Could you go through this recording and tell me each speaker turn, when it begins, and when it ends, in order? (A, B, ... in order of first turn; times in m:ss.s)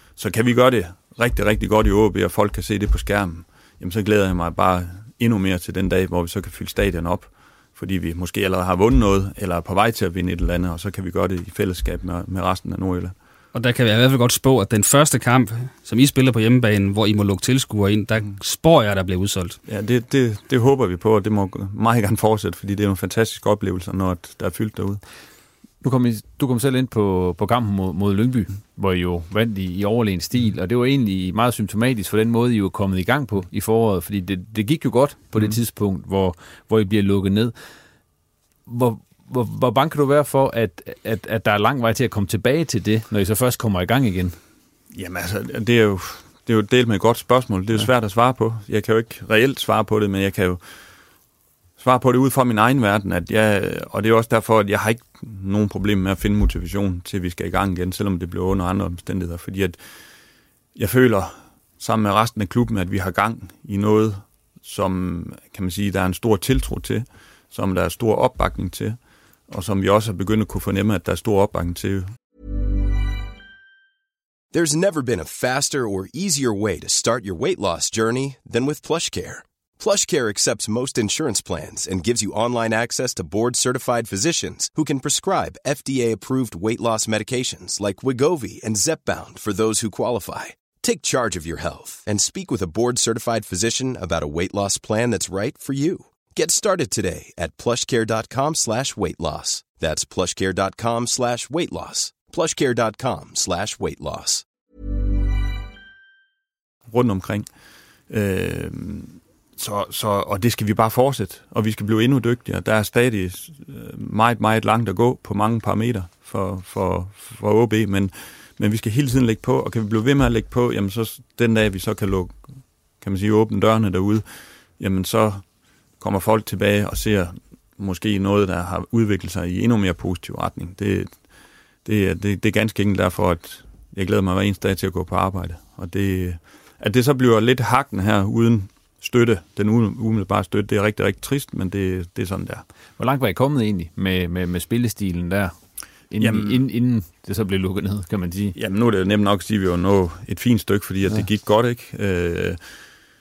0:00.2-0:13.1 A
0:13.5-0:19.6 B
0:19.6-0:25.0 A
0:25.8-0:37.5 C
0:38.7-0:44.4 C
0:44.9-0:50.6 A
0:51.8-0:59.8 A
1:00.7-1:09.0 A
1:09.5-1:12.1 A
1:14.5-1:44.4 D
1:46.9-1:47.5 A
1:48.1-2:02.4 A
2:03.0-2:04.2 A
2:04.8-2:05.4 A
2:06.0-2:11.1 A
2:11.8-2:22.6 A
2:23.0-2:25.5 C
2:26.1-2:28.5 C
2:26.2-2:26.6 A
2:28.5-2:32.6 A